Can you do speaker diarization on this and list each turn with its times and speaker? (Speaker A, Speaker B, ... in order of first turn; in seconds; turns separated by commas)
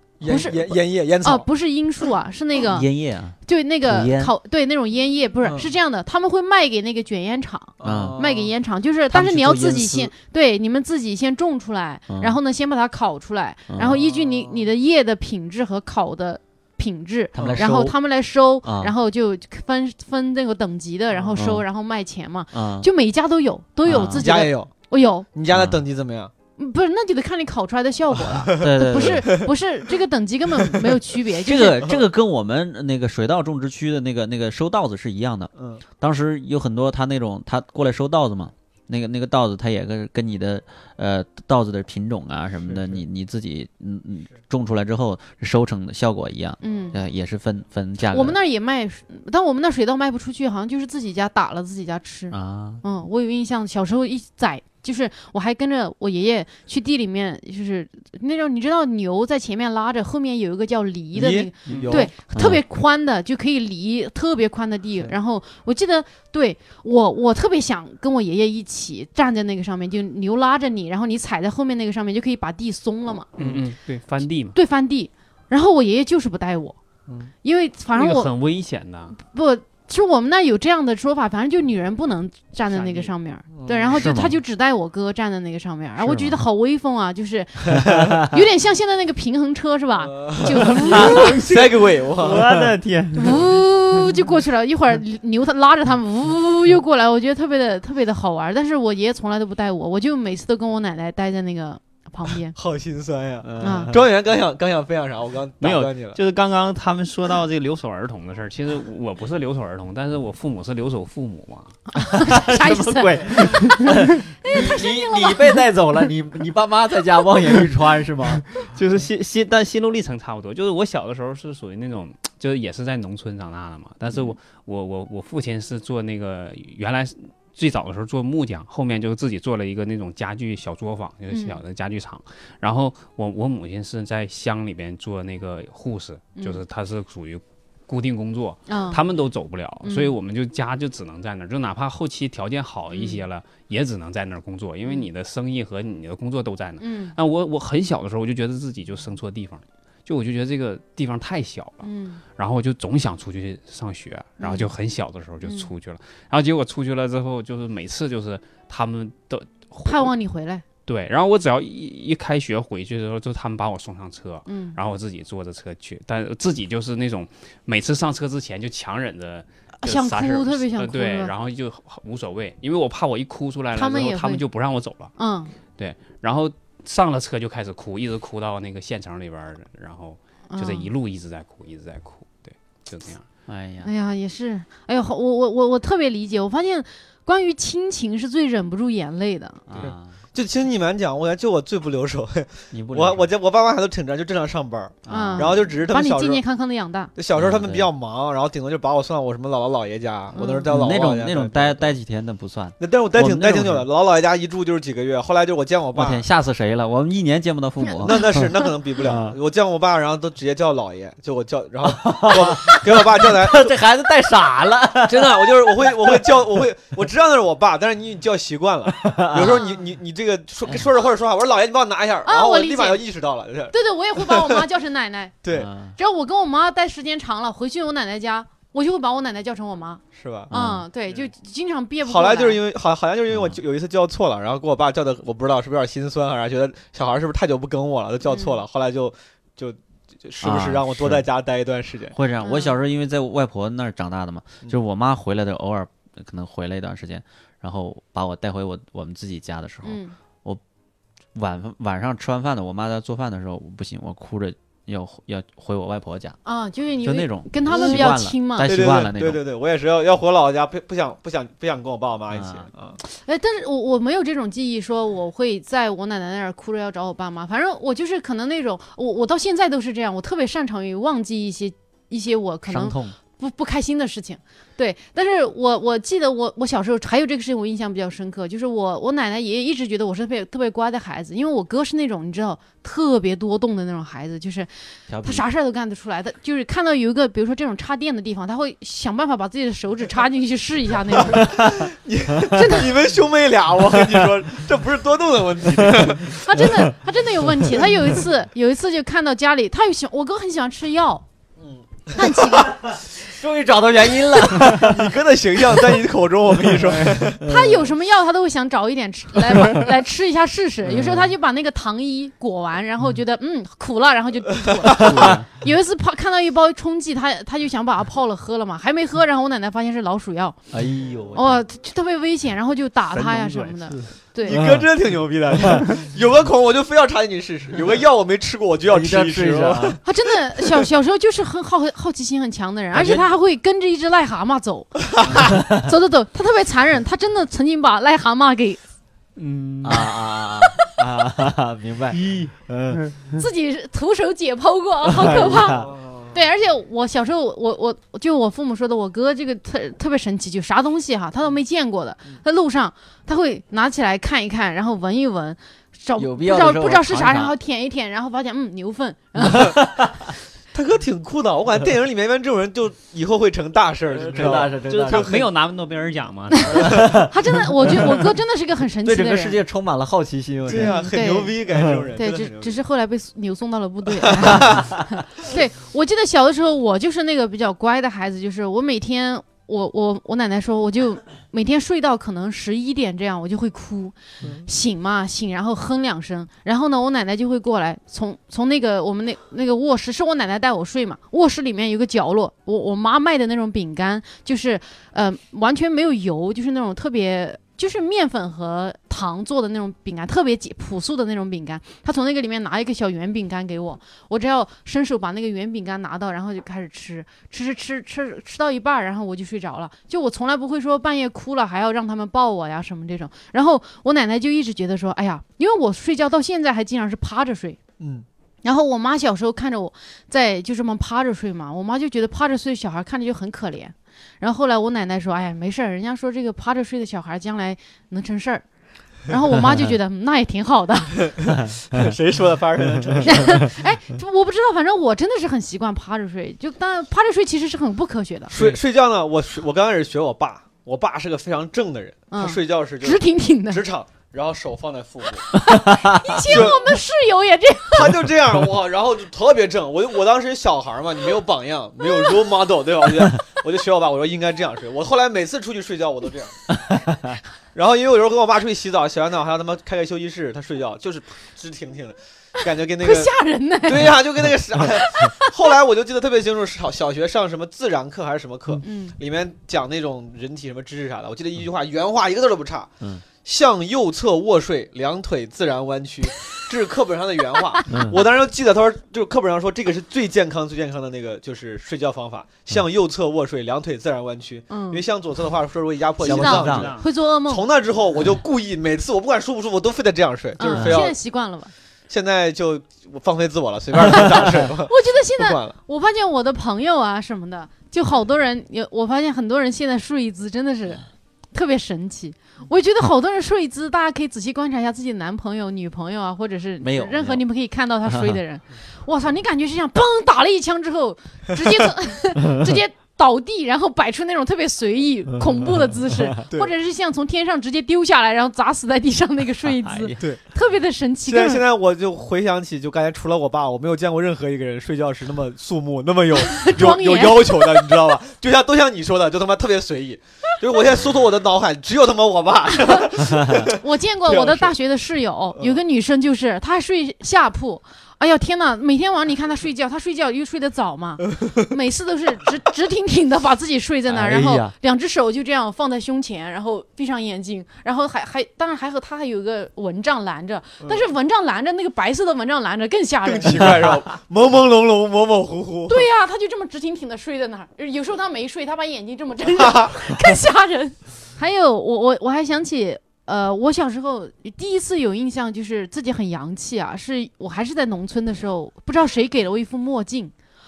Speaker A: 0.2-1.4, Speaker B: 0.2-2.9, Speaker C: 2.7-4.3, Speaker B: 3.4-25.3, Speaker A: 7.8-8.5, Speaker C: 7.8-8.2, Speaker C: 9.1-10.1, Speaker C: 12.1-12.4, Speaker C: 13.7-14.0, Speaker A: 13.9-14.6, Speaker C: 17.3-17.9, Speaker A: 17.4-17.6, Speaker C: 18.6-18.9, Speaker C: 21.4-21.6, Speaker C: 22.5-22.9, Speaker C: 23.8-24.4, Speaker A: 24.1-24.7, Speaker A: 25.3-26.3, Speaker C: 25.5-25.8, Speaker B: 26.6-31.9, Speaker A: 28.3-29.5, Speaker C: 28.6-29.5, Speaker C: 31.4-48.4, Speaker A: 35.5-35.8, Speaker A: 42.6-43.0, Speaker B: 46.6-47.0, Speaker B: 48.1-73.3, Speaker C: 52.3-52.8, Speaker A: 61.1-62.1, Speaker D: 61.7-61.9, Speaker C: 62.3-62.6, Speaker D: 73.4-74.5, Speaker B: 74.5-76.8, Speaker B: 77.4-78.3, Speaker D: 77.9-79.1, Speaker B: 79.1-91.4, Speaker A: 82.8-83.9, Speaker C: 83.9-84.4, Speaker C: 86.0-86.4, Speaker C: 87.7-88.3, Speaker A: 90.0-92.7, Speaker D: 90.9-93.3, Speaker C: 90.9-91.6, Speaker B: 93.1-102.5, Speaker A: 102.5-106.2, Speaker C: 103.4-104.0, Speaker B: 103.6-103.9, Speaker D: 105.6-111.8, Speaker B: 111.9-113.8, Speaker C: 112.1-118.4, Speaker B: 114.4-115.6, Speaker D: 118.5-160.1, Speaker B: 131.3-131.6, Speaker B: 138.7-139.0, Speaker B: 139.8-140.1, Speaker B: 142.9-143.2, Speaker B: 146.8-147.1, Speaker B: 151.8-152.2, Speaker B: 154.4-154.7, Speaker B: 155.4-155.7, Speaker B: 159.8-160.6, Speaker D: 160.8-175.1, Speaker B: 164.5-164.8, Speaker B: 169.8-171.3, Speaker B: 173.7-174.4, Speaker B: 175.2-175.5, Speaker D: 175.8-183.2, Speaker B: 180.5-180.9, Speaker C: 183.5-183.9, Speaker B: 183.8-189.6, Speaker C: 189.7-190.2, Speaker A: 189.8-196.4, Speaker C: 192.7-193.3, Speaker C: 195.0-195.8, Speaker B: 195.1-197.1, Speaker A: 197.2-201.9, Speaker C: 197.3-197.9, Speaker B: 200.3-200.7, Speaker C: 200.7-203.9, Speaker A: 202.8-206.2, Speaker C: 205.9-208.4, Speaker B: 207.8-208.3, Speaker A: 208.0-213.7, Speaker C: 209.0-209.3, Speaker C: 211.8-216.3, Speaker A: 215.1-224.7, Speaker C: 219.0-219.6, Speaker B: 219.5-219.8, Speaker B: 222.2-223.0, Speaker B: 223.7-225.3, Speaker A: 225.4-225.7, Speaker C: 225.5-225.9, Speaker B: 225.9-232.6, Speaker A: 230.1-230.5, Speaker C: 230.5-230.9, Speaker A: 232.1-242.2, Speaker C: 233.3-233.6, Speaker B: 238.3-238.6, Speaker C: 240.4-241.2, Speaker C: 242.1-250.6, Speaker B: 242.4-242.8, Speaker B: 249.8-250.1, Speaker C: 251.3-256.4, Speaker B: 256.4-258.7, Speaker C: 257.0-259.4, Speaker A: 257.8-258.1, Speaker A: 258.6-263.0, Speaker C: 262.3-262.7, Speaker B: 263.0-284.7, Speaker C: 272.6-273.1, Speaker C: 285.1-285.4, Speaker B: 285.2-291.7, Speaker A: 291.3-296.6, Speaker C: 291.5-291.9, Speaker B: 292.5-292.9, Speaker B: 296.4-301.2, Speaker B: 302.1-302.8, Speaker C: 302.5-306.0, Speaker A: 304.5-307.4, Speaker C: 306.7-307.8, Speaker B: 307.4-320.6, Speaker C: 310.8-311.3, Speaker A: 314.6-315.3, Speaker C: 314.9-315.5, Speaker C: 320.7-321.6, Speaker B: 321.3-324.6, Speaker D: 323.1-324.1, Speaker A: 324.4-330.0, Speaker C: 324.5-324.9, Speaker C: 325.6-325.8, Speaker C: 328.9-330.0, Speaker B: 330.0-338.8, Speaker C: 332.9-333.3, Speaker D: 339.4-340.2, Speaker C: 339.8-343.0, Speaker D: 342.1-343.3, Speaker B: 343.3-359.8, Speaker C: 345.0-345.9, Speaker A: 345.8-346.3, Speaker C: 356.2-357.5, Speaker C: 359.4-360.1, Speaker A: 360.7-365.4, Speaker C: 364.1-365.4, Speaker D: 364.3-366.9, Speaker B: 366.5-369.6, Speaker C: 366.7-368.3, Speaker C: 369.0-371.0, Speaker A: 370.6-372.8, Speaker B: 370.7-371.6, Speaker C: 371.7-372.1, Speaker B: 372.1-417.8, Speaker A: 374.3-374.8, Speaker C: 374.6-374.9, Speaker A: 418.0-418.2, Speaker B: 418.6-428.6, Speaker B: 429.2-431.3, Speaker C: 429.6-429.9, Speaker A: 431.9-433.7, Speaker B: 433.2-438.5, Speaker A: 438.5-445.5, Speaker B: 442.3-443.8, Speaker B: 445.5-448.1, Speaker C: 445.9-446.7, Speaker A: 446.4-446.8, Speaker A: 447.9-456.6, Speaker C: 456.9-457.2, Speaker A: 457.7-463.3, Speaker B: 462.6-464.1, Speaker A: 463.9-491.1, Speaker B: 464.8-465.5, Speaker B: 468.8-469.2, Speaker C: 477.9-478.2, Speaker B: 484.7-485.0, Speaker C: 486.2-486.9, Speaker B: 486.3-487.6, Speaker D: 486.7-487.0, Speaker B: 490.6-491.7, Speaker C: 490.6-490.9, Speaker A: 492.1-495.7, Speaker B: 494.1-521.6, Speaker C: 506.8-507.4, Speaker C: 508.1-508.4, Speaker C: 519.6-520.3, Speaker A: 521.3-533.7, Speaker B: 526.3-528.0, Speaker B: 533.5-553.8, Speaker A: 534.2-534.7, Speaker C: 544.1-544.7, Speaker A: 553.2-556.1, Speaker B: 555.9-570.3, Speaker A: 559.6-559.9